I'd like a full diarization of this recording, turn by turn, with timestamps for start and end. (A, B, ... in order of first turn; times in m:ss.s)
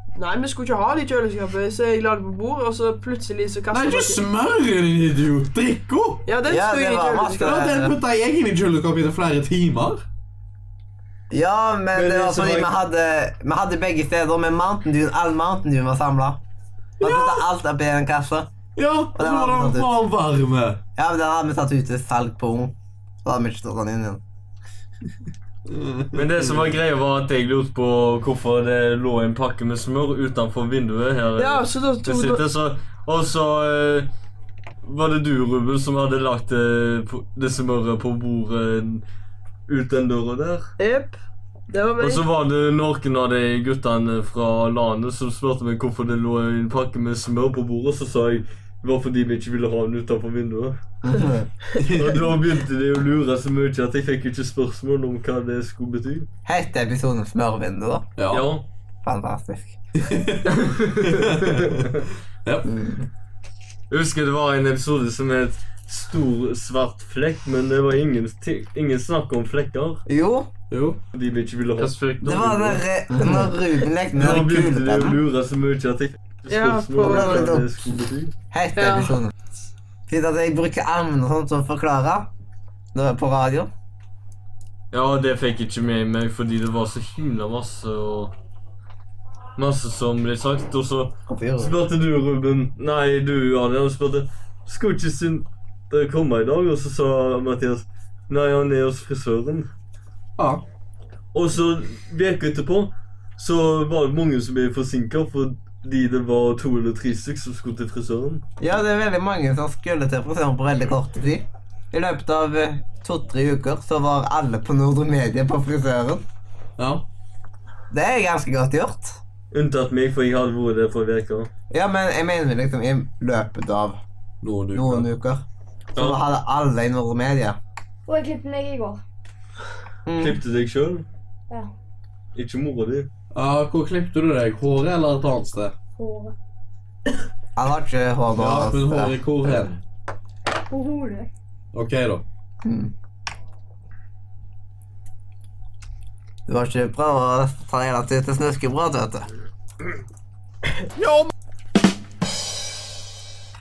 0:00.2-0:04.2 A
0:03.7-0:06.3 B
0:06.3-0:07.6 A
0:06.4-0:08.0 C
0:07.4-0:10.0 B
0:11.3-0:16.4 C
0:11.9-0:12.7 D
0:17.0-0:18.5 C
0:17.0-0:17.4 B
0:18.8-0:20.8 B
0:19.2-0:19.9 C
0:21.0-0:24.2 C
0:25.7-0:26.8 B
0:26.1-0:34.1 D
0:31.4-0:32.4 A
0:34.8-0:39.0 D
0:39.7-0:40.7 D
0:40.8-0:41.2 A
0:41.7-0:42.3 A
0:42.0-0:50.8 D
0:51.0-0:51.5 C
0:51.8-0:52.3 B
0:51.9-0:56.3 D
0:56.5-0:58.1 C
0:58.2-0:58.5 B
0:58.3-0:58.6 D
0:59.0-0:59.8 C
1:00.0-1:02.7 B
1:00.5-1:02.0 D
1:02.6-1:03.1 C
1:03.9-1:10.0 D
1:10.1-1:10.5 C
1:10.7-1:11.0 B
1:11.2-1:12.8 D
1:12.2-1:15.2 C
1:14.1-1:18.3 D
1:16.5-1:17.6 A
1:17.0-1:17.8 C
1:18.5-1:19.3 C
1:18.8-1:19.2 A
1:20.1-1:22.3 C
1:22.9-1:23.7 C
1:24.9-1:28.3 D
1:29.6-1:39.7 D
1:31.3-1:31.8 C
1:40.4-1:40.6 B
1:41.3-1:48.4 D
1:48.6-1:56.2 C
1:56.8-1:57.1 B
1:57.9-1:59.2 C
1:59.5-2:01.5 D
2:01.7-2:04.0 C
2:04.4-2:05.0 B
2:04.7-2:05.4 C
2:06.0-2:06.2 D
2:06.0-2:07.6 C
2:08.1-2:09.0 E
2:10.1-2:10.4 C
2:10.2-2:11.1 D
2:12.4-2:13.1 D
2:13.3-2:15.7 B
2:16.0-2:16.4 E
2:17.6-2:19.7 C
2:18.4-2:19.8 B
2:20.7-2:21.3 E
2:21.7-2:22.2 B
2:22.6-2:22.9 C
2:26.5-2:29.3 C
2:31.0-2:31.3 B